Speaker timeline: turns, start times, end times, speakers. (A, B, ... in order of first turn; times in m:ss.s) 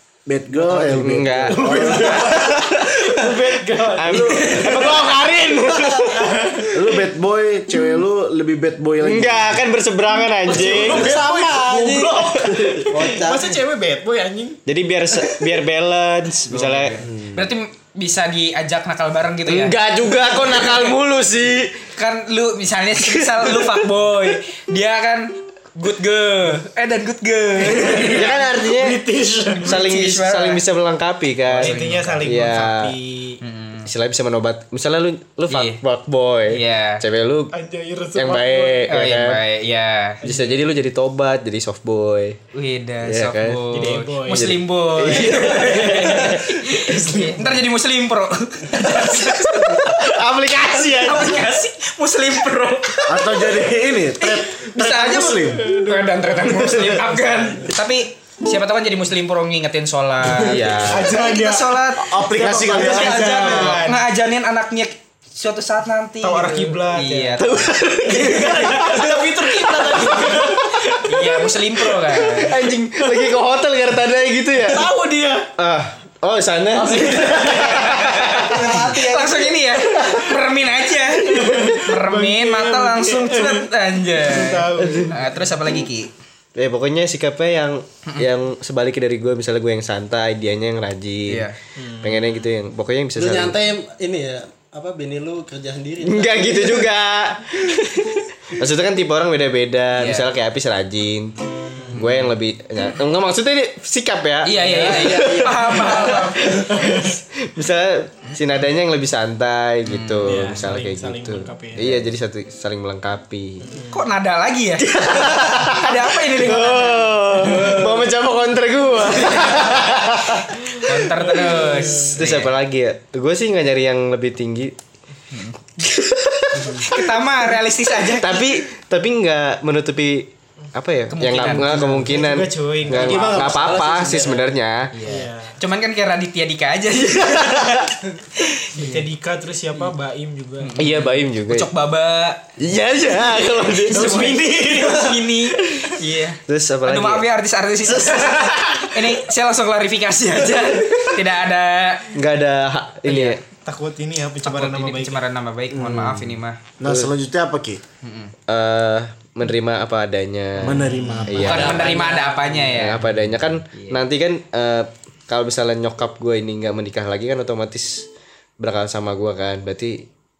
0:00.2-0:02.5 A
0:00.7-0:06.3 B
0:01.4-0:06.8 C
0:04.2-0:04.6 A
0:06.7-0:09.6 A
0:09.0-0:11.2 B
0:10.4-0:14.6 C
0:10.5-0:13.5 D
0:12.3-0:13.1 B
0:14.6-0:17.1 B
0:16.5-0:19.8 E
0:19.5-0:21.8 B
0:20.5-0:20.9 E
0:22.0-0:28.4 E
0:23.1-0:23.8 B
0:27.6-0:29.8 C
0:28.0-0:29.0 B
0:29.6-0:32.9 B
0:29.6-0:30.6 E
0:31.5-0:32.2 E
0:31.5-0:33.4 C
0:33.4-0:33.9 E
0:33.8-0:37.5 B
0:35.5-0:35.8 E
0:36.5-0:37.0 E
0:37.5-0:38.9 C
0:38.1-0:39.4 B
0:38.9-0:40.2 E
0:40.2-0:40.6 C
0:40.2-0:42.4 B
0:42.5-0:50.1 E
0:43.0-0:46.5 B
0:43.7-0:47.6 C
0:49.0-0:49.3 C
0:49.7-0:51.4 B
0:50.7-1:09.1 E
0:53.0-0:55.7 A
0:55.5-0:57.7 C
1:00.3-1:04.0 C
1:00.4-1:01.1 B
1:02.0-1:03.7 A
1:06.2-1:12.4 C
1:07.4-1:09.1 B
1:09.8-1:12.6 E
1:12.3-1:14.9 B
1:14.6-1:15.5 C
1:15.6-1:20.2 B
1:16.7-1:19.0 C
1:17.1-1:26.1 E
1:21.2-1:25.2 C
1:24.8-1:25.1 B
1:26.5-1:33.6 B
1:31.3-1:31.6 E
1:31.8-1:32.2 C
1:33.2-1:36.9 D
1:36.0-1:41.4 B
1:40.0-1:40.3 E
1:41.9-1:53.8 B
1:44.4-1:46.7 E
1:44.6-1:45.4 D
1:49.8-1:50.6 E
1:50.2-1:52.0 C
1:53.7-1:54.0 C
1:53.9-1:57.7 E
1:54.8-2:04.7 B
1:59.4-1:59.8 E
2:00.8-2:02.6 E
2:01.3-2:02.1 C
2:05.3-2:05.6 E
2:05.8-2:07.0 B
2:06.7-2:08.5 E
2:08.0-2:15.0 B
2:11.1-2:12.0 E
2:11.3-2:13.8 C
2:12.9-2:14.6 D
2:14.9-2:19.0 E
2:15.0-2:15.6 C
2:17.2-2:17.8 B
2:18.7-2:20.8 C
2:20.6-2:22.4 E
2:20.8-2:21.7 B
2:22.6-2:24.4 B
2:23.3-2:32.1 E
2:23.8-2:25.4 C
2:26.5-2:27.2 B
2:27.9-2:28.7 C
2:32.1-2:33.4 B
2:33.0-2:33.4 E
2:33.6-2:35.2 C
2:34.4-2:36.6 E
2:35.7-2:36.2 A
2:35.8-2:36.2 B
2:36.8-2:37.8 A
2:36.8-2:37.1 B
2:38.0-2:38.3 E
2:38.5-2:41.9 B
2:40.6-2:41.8 A
2:41.3-2:43.2 E
2:41.4-2:42.6 D
2:42.6-2:48.1 B
2:43.7-2:44.0 E
2:48.6-2:50.1 B